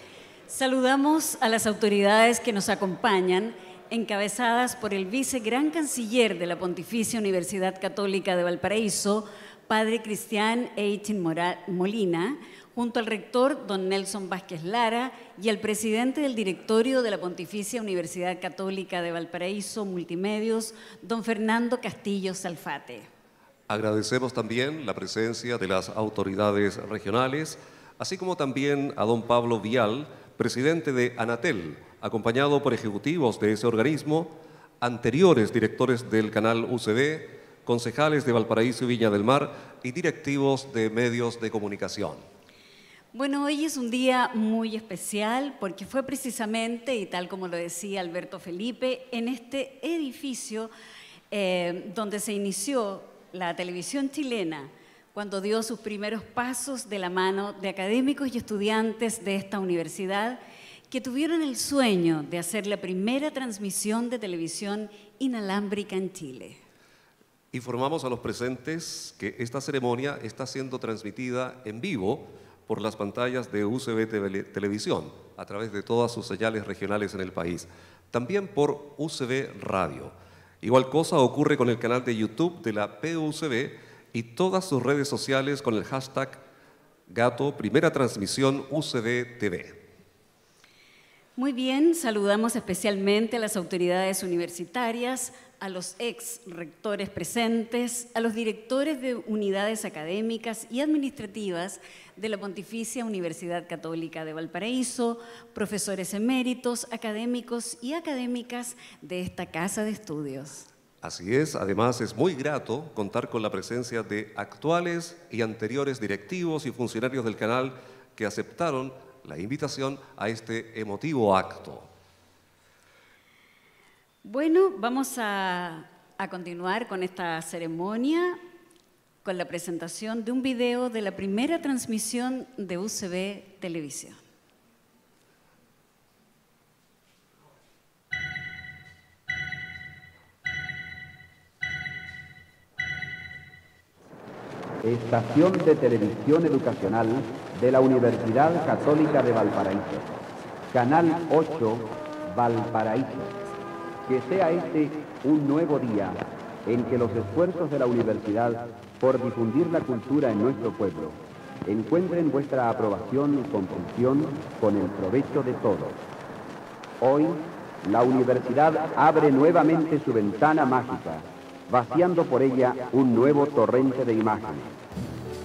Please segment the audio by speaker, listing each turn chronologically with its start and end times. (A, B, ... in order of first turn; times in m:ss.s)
0:00.5-0:23.1 A
0:23.7-0:42.2 B
0:43.1-0:50.7 A
0:51.3-1:00.4 A
1:00.9-1:06.6 A
1:07.5-1:26.4 B
1:27.1-1:29.8 B
1:31.4-1:50.7 A
1:51.0-2:01.9 B
2:04.2-2:08.4 A
2:09.2-2:14.2 A
2:24.8-2:30.1 C
2:30.7-2:33.3 C
2:34.1-2:46.0 C
2:47.0-2:54.7 C